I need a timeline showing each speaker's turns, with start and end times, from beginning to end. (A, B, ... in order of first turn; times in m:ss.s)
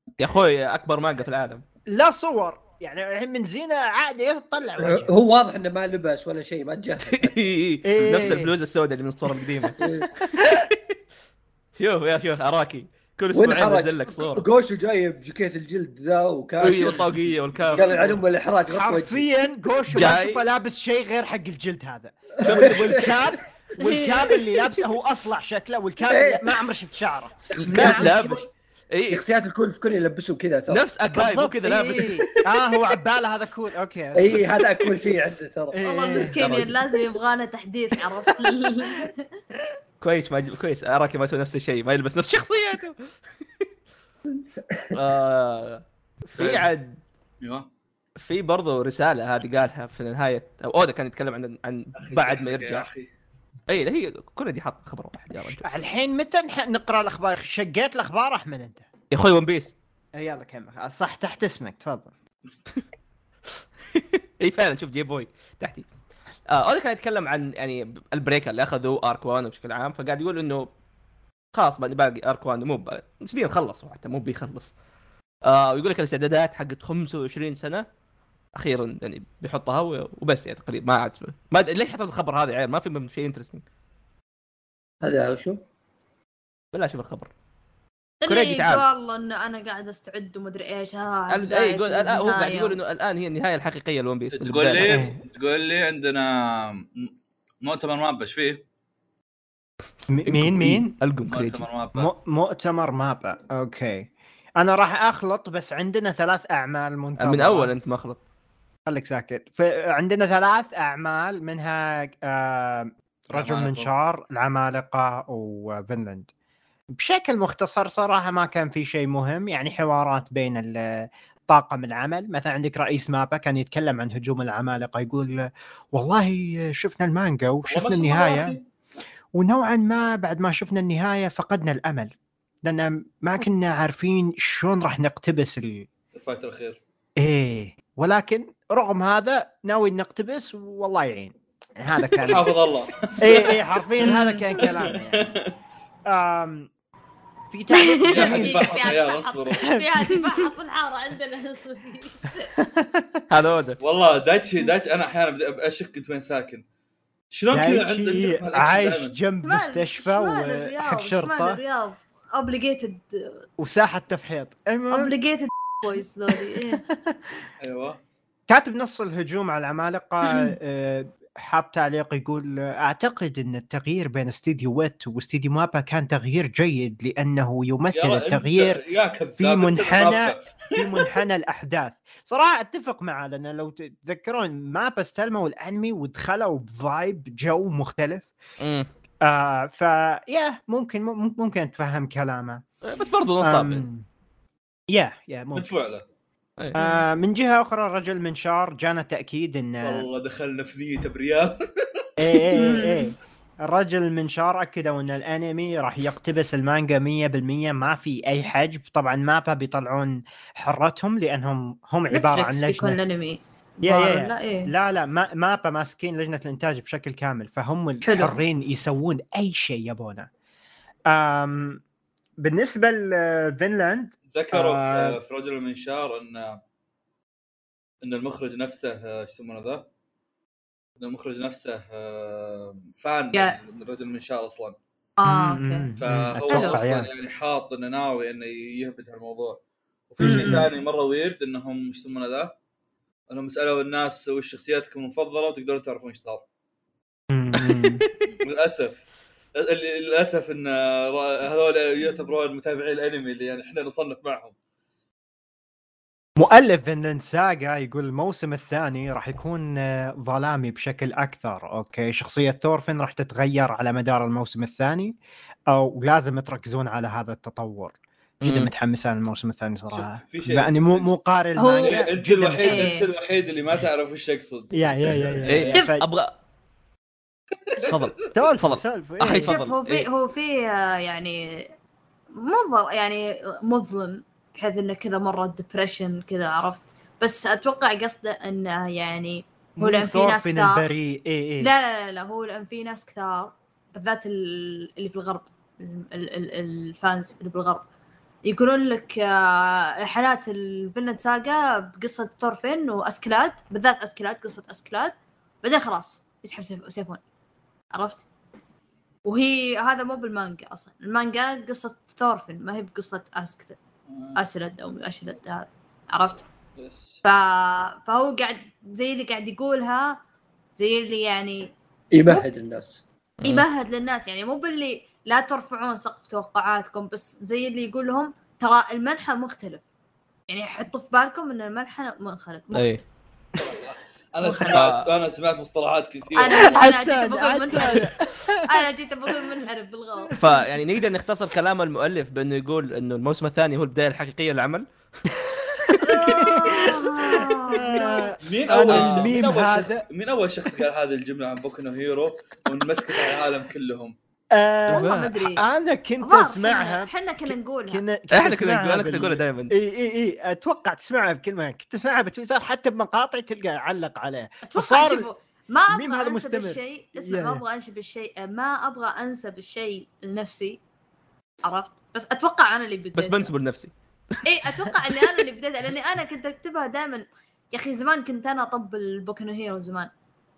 0:00.2-0:01.6 A
0:01.9-0:05.1 B
0:04.8-0:07.4 C
0:07.1-0:10.9 A
0:07.8-0:08.5 B
0:09.8-0:10.1 C
0:11.8-0:14.4 A
0:13.3-0:19.2 C
0:16.6-0:18.2 A
0:18.7-0:28.5 B
0:19.9-0:20.4 A
0:22.4-0:23.2 C
0:22.4-0:23.1 A
0:23.8-0:24.4 D
0:26.1-0:26.5 C
0:27.5-0:28.4 C
0:27.6-0:29.2 A
0:29.1-0:30.8 C
0:30.7-0:32.2 A
0:31.1-0:34.5 B
0:34.1-0:36.3 C
0:35.7-0:36.4 B
0:35.8-0:39.3 D
0:36.4-0:36.8 A
0:40.0-0:43.0 A
0:44.6-0:45.0 C
0:44.9-0:47.0 A
0:46.4-0:46.7 E
0:47.4-0:47.7 E
0:48.2-0:52.9 A
0:52.0-0:53.1 E
0:53.7-0:55.6 A
0:55.4-0:58.9 B
0:59.1-0:59.8 A
1:00.2-1:02.1 B
1:03.9-1:05.9 A
1:06.5-1:10.7 A
1:11.5-1:14.7 A
1:15.4-1:17.9 A
1:18.6-1:23.6 A
1:25.0-1:25.6 C
1:26.7-1:27.3 A
1:28.2-1:32.8 D
1:28.3-1:28.8 A
1:31.3-1:35.0 A
1:34.3-1:38.6 E
1:34.8-1:35.2 B
1:40.1-1:41.0 B
1:40.3-1:41.7 A
1:41.3-1:42.1 E
1:42.0-1:47.7 B
1:47.2-1:48.2 A
1:48.9-1:56.3 B
1:53.3-1:53.9 E
1:56.9-2:08.6 B
2:07.6-2:08.6 E
2:09.3-2:12.1 B
2:12.6-2:15.9 B
2:16.2-2:16.8 E
2:17.2-2:22.5 B
2:22.2-2:23.6 E
2:23.2-2:25.3 B
2:24.0-2:24.6 D
2:24.6-2:25.5 E
2:26.1-2:26.7 B
2:27.5-2:28.7 B
2:27.7-2:32.5 D
2:28.0-2:29.8 E
2:29.8-2:30.4 B
2:32.6-2:33.2 B
2:33.3-2:33.8 A
2:33.8-2:36.6 E
2:37.3-2:39.2 E
2:37.5-2:41.6 B
2:39.4-2:43.5 D
2:43.6-2:45.1 B
2:44.9-2:46.8 D
2:46.3-2:47.2 B
2:47.6-2:48.0 E
2:48.5-2:58.8 B
2:50.3-2:50.5 D
2:57.9-3:01.1 E
2:59.4-3:08.3 B
3:08.6-3:08.9 A
3:09.2-3:12.6 B
3:12.8-3:13.8 A
3:13.4-3:14.0 B
3:14.9-3:15.7 B
3:15.6-3:16.1 E
3:16.8-3:20.1 B
3:16.8-3:17.0 D
3:19.8-3:22.4 E
3:22.2-3:33.0 B
3:22.5-3:23.1 D
3:32.1-3:34.7 D
3:33.8-3:40.3 B
3:38.0-3:38.4 D
3:41.1-3:41.8 B
3:42.4-3:45.2 B
3:44.3-3:46.6 E
3:48.0-3:49.9 E
3:51.0-3:54.8 E
3:55.2-3:55.9 D
3:55.2-3:57.1 B
3:56.0-4:02.6 E
3:56.5-3:56.8 D
4:00.2-4:00.7 B
4:00.2-4:00.7 D
4:03.3-4:06.4 E
4:07.3-4:08.1 B
4:07.6-4:08.1 A
4:08.2-4:09.0 E
4:09.6-4:14.6 E
4:16.4-4:25.2 B
4:25.7-4:33.0 B
4:28.4-4:28.7 A
4:29.9-4:31.1 E
4:31.6-4:32.0 D
4:31.8-4:35.7 E
4:32.6-4:33.1 D
4:34.7-4:36.0 B
4:35.5-4:36.3 A
4:37.7-4:37.9 E
4:37.8-4:40.1 A
4:38.3-4:39.6 B
4:39.4-4:41.7 D
4:42.3-4:50.9 D
4:49.8-4:51.7 B
4:51.6-4:57.8 D
4:58.4-5:07.2 D
5:07.9-5:08.2 D
5:09.2-5:13.8 D
5:14.1-5:14.4 E
5:14.4-5:16.5 D
5:16.8-5:17.2 E
5:17.2-5:20.2 D
5:20.8-5:21.7 D
5:22.1-5:23.0 C
5:23.4-5:29.8 D
5:30.5-5:33.1 D
5:32.7-5:33.0 A
5:33.6-5:36.8 E
5:34.6-5:35.1 A
5:36.4-5:38.1 D
5:36.5-5:39.5 B
5:38.7-5:40.4 D
5:40.3-5:40.6 B
5:40.4-5:45.3 A
5:45.9-5:50.0 B
5:46.0-5:48.3 D
5:48.4-5:54.2 E
5:48.9-5:49.3 A
5:54.5-6:05.3 B
5:54.9-5:55.4 A
5:54.9-5:55.6 D
5:56.2-5:58.0 D
5:58.3-5:59.7 A
6:04.7-6:10.8 D
6:05.9-6:07.6 B
6:11.6-6:13.5 D
6:13.2-6:15.4 A
6:14.4-6:20.1 D